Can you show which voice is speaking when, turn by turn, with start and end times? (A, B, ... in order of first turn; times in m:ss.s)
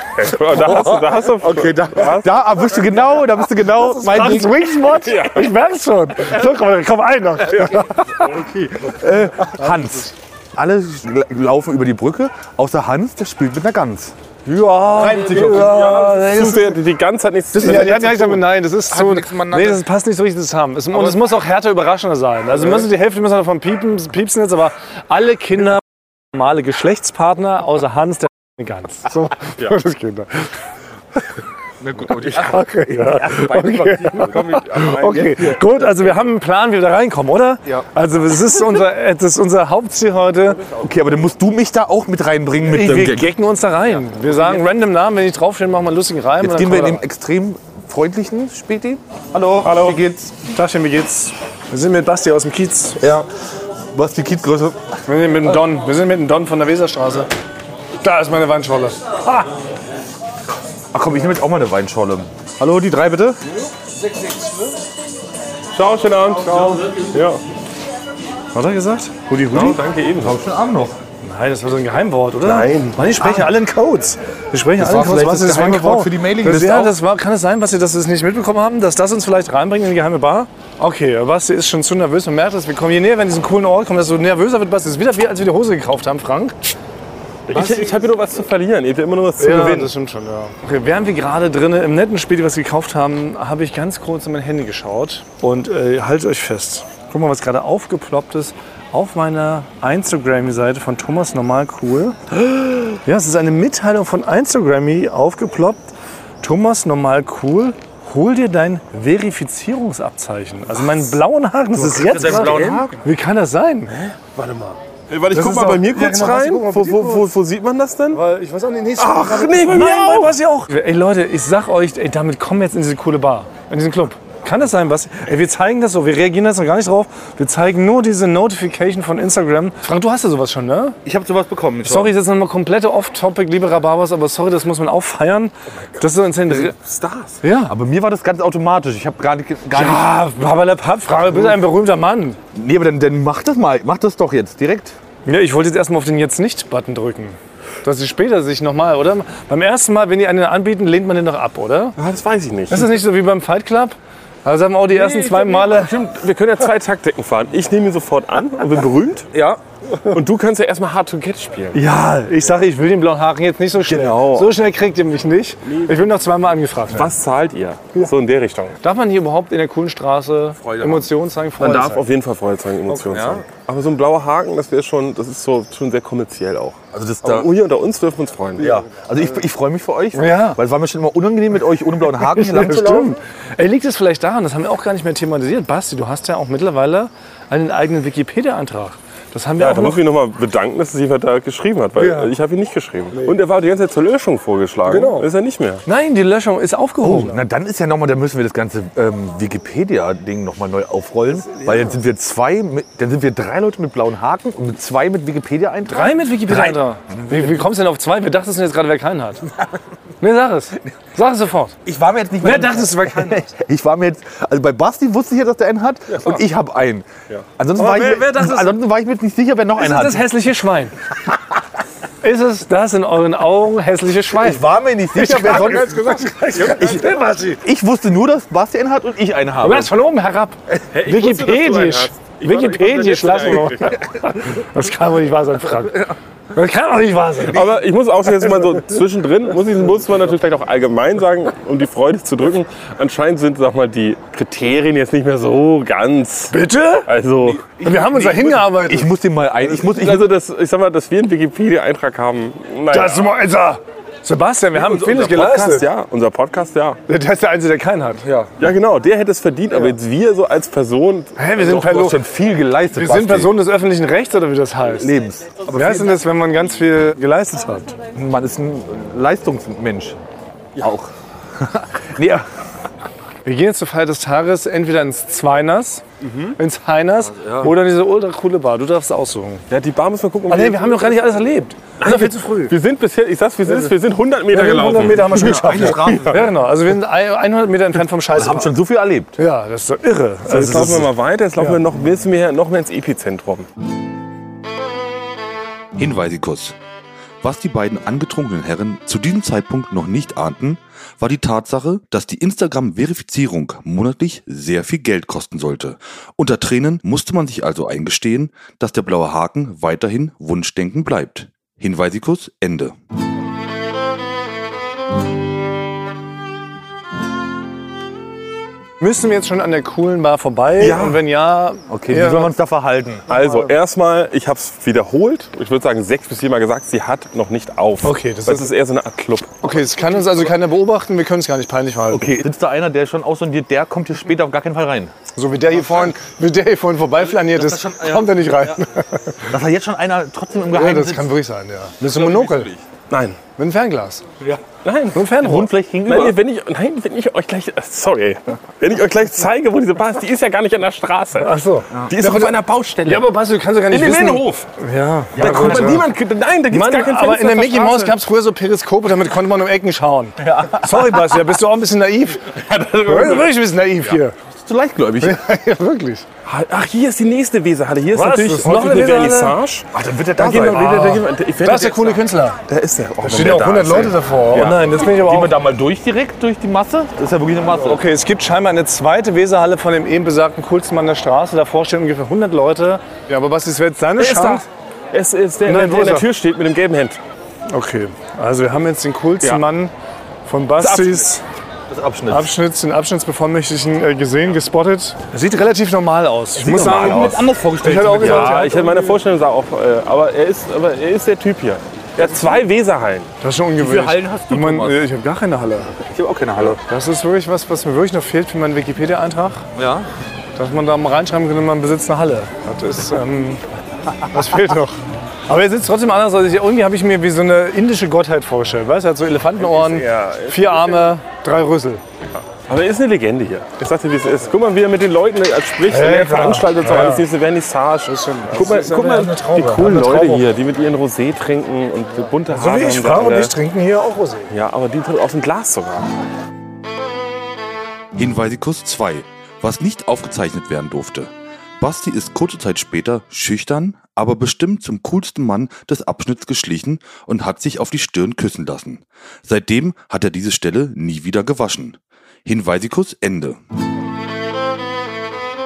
0:00.2-0:02.3 A
0:00.6-0:04.6 B
0:03.7-0:08.3 C
0:04.9-0:05.5 A
0:08.7-0:14.1 B
0:14.4-0:16.8 C
0:14.9-0:15.8 B
0:15.0-0:18.4 A
0:17.5-0:30.5 C
0:17.6-0:17.9 B
0:18.9-0:19.8 B
0:31.8-0:35.6 B
0:32.3-0:40.6 C
0:34.1-0:35.4 A
0:40.7-0:43.3 B
0:42.6-0:47.0 C
0:46.4-0:50.4 B
0:49.6-0:53.0 C
0:53.0-0:53.3 B
0:53.9-0:54.9 B
0:55.1-0:57.3 C
0:58.0-0:59.5 C
1:00.9-1:03.4 B
1:05.7-1:07.4 A
1:08.5-1:09.8 C
1:09.5-1:10.4 A
1:10.2-1:11.0 B
1:11.2-1:26.8 C
1:12.4-1:13.0 A
1:13.2-1:13.5 B
1:14.8-1:17.0 B
1:27.5-1:29.9 A
1:29.4-1:45.9 C
1:46.4-1:54.0 C
1:51.7-1:53.0 B
1:52.1-1:52.9 A
1:54.0-1:58.2 A
1:55.3-1:57.2 C
1:58.1-2:11.0 C
1:59.0-2:00.4 A
2:11.0-2:12.1 B
2:11.8-2:16.7 C
2:16.0-2:17.4 A
2:17.4-2:17.7 C
2:17.6-2:20.1 B
2:19.7-2:22.4 C
2:22.5-2:25.0 B
2:25.2-2:32.0 C
2:32.0-2:33.0 A
2:32.7-2:35.9 C
2:34.9-2:39.4 A
2:40.1-2:41.8 A
2:41.7-2:47.1 C
2:43.9-2:44.5 A
2:45.6-2:45.9 A
2:46.9-2:48.8 A
2:48.8-2:52.0 C
2:50.6-2:51.1 B
2:51.6-2:58.7 A
2:53.0-2:53.4 B
2:56.9-2:57.5 B
2:58.6-3:03.2 B
3:00.1-3:00.6 C
3:02.2-3:10.0 C
3:09.6-3:15.8 A
3:12.0-3:12.3 C
3:14.9-3:15.3 C
3:15.8-3:17.4 C
3:17.0-3:27.4 B
3:21.5-3:21.9 C
3:25.9-3:29.5 C
3:30.2-3:31.8 C
3:31.8-3:40.3 B
3:32.4-3:33.5 C
3:36.1-3:36.4 A
3:37.8-3:38.7 C
3:39.8-3:41.0 C
3:42.2-3:44.6 C
3:44.4-3:49.9 B
3:45.1-3:47.6 C
3:49.6-3:57.7 C
3:50.8-3:54.0 A
3:57.5-4:06.5 A
4:06.5-4:07.1 C
4:07.0-4:07.8 A
4:07.4-4:10.3 B
4:07.8-4:09.1 C
4:09.7-4:13.3 A
4:12.9-4:15.9 C
4:14.7-4:17.0 A
4:17.1-4:18.2 C
4:18.2-4:18.5 B
4:18.6-4:21.4 A
4:21.4-4:22.2 C
4:21.6-4:23.5 B
4:22.9-4:25.1 C
4:25.0-4:26.2 B
4:25.7-4:28.0 C
4:28.1-4:30.2 B
4:30.8-4:32.4 B
4:33.4-4:36.0 C
4:36.2-4:36.6 A
4:36.6-4:39.6 C
4:39.7-4:41.2 A
4:40.5-4:42.7 C
4:42.0-4:46.4 A
4:44.5-4:48.7 C
4:45.2-4:46.5 B
4:48.3-4:49.4 B
4:49.4-4:51.0 C
4:50.5-4:53.7 A
4:50.5-4:51.0 B
4:56.0-4:56.8 D
4:57.4-5:12.9 D
5:19.0-5:22.5 C
5:20.8-5:21.2 A
5:21.9-5:23.2 B
5:23.3-5:23.7 C
5:23.3-5:29.6 A
5:28.0-5:28.7 C
5:29.6-5:32.4 C
5:32.1-5:35.1 B
5:35.4-5:39.4 C
5:37.4-5:38.7 B
5:39.5-5:41.3 B
5:40.7-5:42.7 C
5:42.1-5:43.4 A
5:43.6-5:44.3 C
5:44.8-5:45.2 A
5:45.1-5:45.7 C
5:45.4-5:46.4 B
5:46.0-5:51.5 A
5:51.4-5:56.0 C
5:52.1-5:53.3 A
5:53.9-5:54.7 A
5:55.3-5:56.0 B
5:55.4-5:58.2 A
5:56.7-6:04.3 C
6:00.4-6:01.4 B
6:02.6-6:03.4 A
6:04.5-6:05.4 B
6:05.2-6:06.2 C
6:06.4-6:14.8 A
6:08.1-6:09.6 C
6:09.9-6:10.9 B
6:10.7-6:12.6 C
6:13.2-6:15.5 C
6:14.6-6:18.0 B
6:17.8-6:24.6 C
6:24.2-6:27.2 A
6:25.6-6:26.2 C
6:27.7-6:29.9 C
6:30.4-6:31.4 C
6:30.8-6:31.3 A
6:31.9-6:32.5 B
6:32.3-6:38.8 C
6:36.6-6:38.9 B
6:36.8-6:37.2 A
6:38.2-6:43.3 A
6:43.4-6:45.9 C
6:43.8-6:45.0 B
6:46.0-6:46.8 B
6:46.8-6:49.6 C
6:49.7-6:50.1 B
6:50.6-6:53.6 C
6:54.3-7:02.0 C
6:59.6-7:01.2 A
7:02.3-7:13.5 A
7:05.9-7:07.2 C
7:08.0-7:10.5 C
7:12.5-7:14.5 C
7:14.5-7:16.1 A
7:18.1-7:33.6 D